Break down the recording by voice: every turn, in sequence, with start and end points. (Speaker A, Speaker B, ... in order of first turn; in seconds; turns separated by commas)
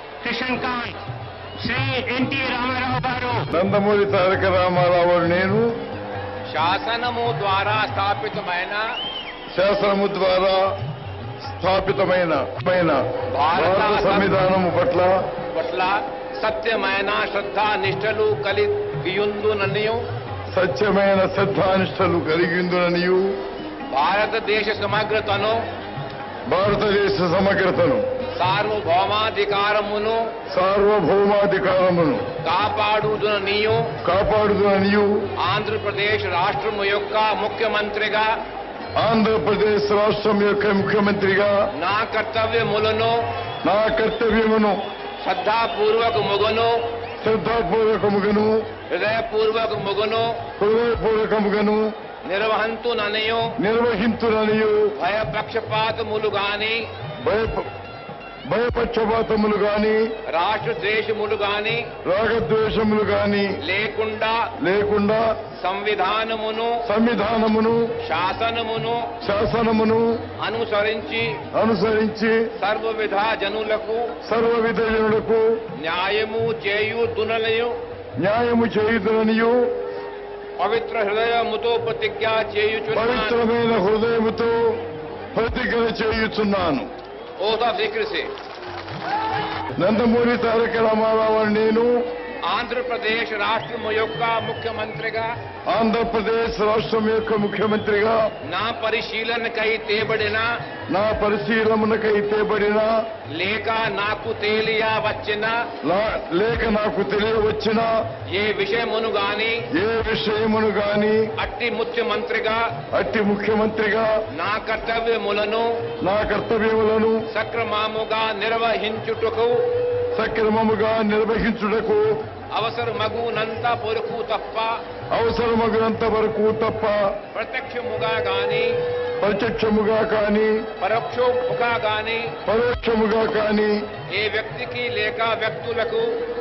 Speaker A: 0.2-1.0, Speaker A: 1.6-3.4, Speaker B: 3.5-5.7, Speaker C: 6.5-8.8, Speaker B: 9.5-10.6, Speaker B: 11.5-13.0, Speaker C: 13.3-14.4, Speaker B: 13.5-15.1, Speaker C: 15.5-20.0, Speaker B: 20.5-23.3, Speaker C: 23.9-25.6, Speaker B: 26.5-28.1, Speaker C: 28.4-30.2, Speaker B: 30.5-32.2, Speaker C: 32.4-33.9, Speaker B: 34.0-35.1, Speaker C: 35.4-38.3, Speaker B: 39.0-41.5, Speaker C: 41.7-43.1, Speaker B: 43.6-44.8, Speaker C: 45.2-46.8, Speaker B: 47.2-48.5, Speaker C: 48.9-50.4, Speaker B: 50.6-51.8, Speaker C: 52.2-53.5, Speaker B: 53.6-54.8, Speaker C: 54.9-56.8, Speaker B: 57.2-57.7, Speaker B: 58.5-60.0, Speaker C: 60.3-61.9, Speaker B: 62.0-63.5, Speaker C: 63.6-64.5, Speaker B: 64.6-65.2, Speaker C: 65.6-66.8, Speaker B: 66.8-67.8, Speaker C: 68.0-69.1, Speaker B: 69.2-70.0, Speaker C: 70.4-71.4, Speaker B: 71.5-72.4, Speaker C: 72.6-74.1, Speaker B: 74.2-75.4, Speaker C: 75.8-77.8, Speaker B: 78.2-79.6, Speaker C: 80.6-83.5, Speaker B: 82.9-84.8, Speaker B: 85.3-86.9, Speaker C: 87.4-88.3, Speaker B: 89.8-91.9, Speaker C: 92.4-95.3, Speaker B: 95.7-98.2, Speaker C: 98.5-100.5, Speaker B: 100.9-102.9, Speaker C: 103.3-105.6, Speaker B: 105.8-107.9, Speaker C: 108.3-109.6, Speaker B: 109.7-111.3, Speaker C: 111.4-112.7, Speaker B: 112.9-114.1, Speaker C: 114.3-115.7, Speaker B: 116.0-117.2, Speaker C: 117.3-119.6, Speaker B: 120.2-122.0, Speaker C: 122.5-124.8, Speaker B: 125.1-127.1, Speaker C: 127.3-128.8, Speaker B: 129.2-130.6, Speaker C: 130.8-132.3, Speaker B: 132.4-133.7, Speaker C: 134.1-136.1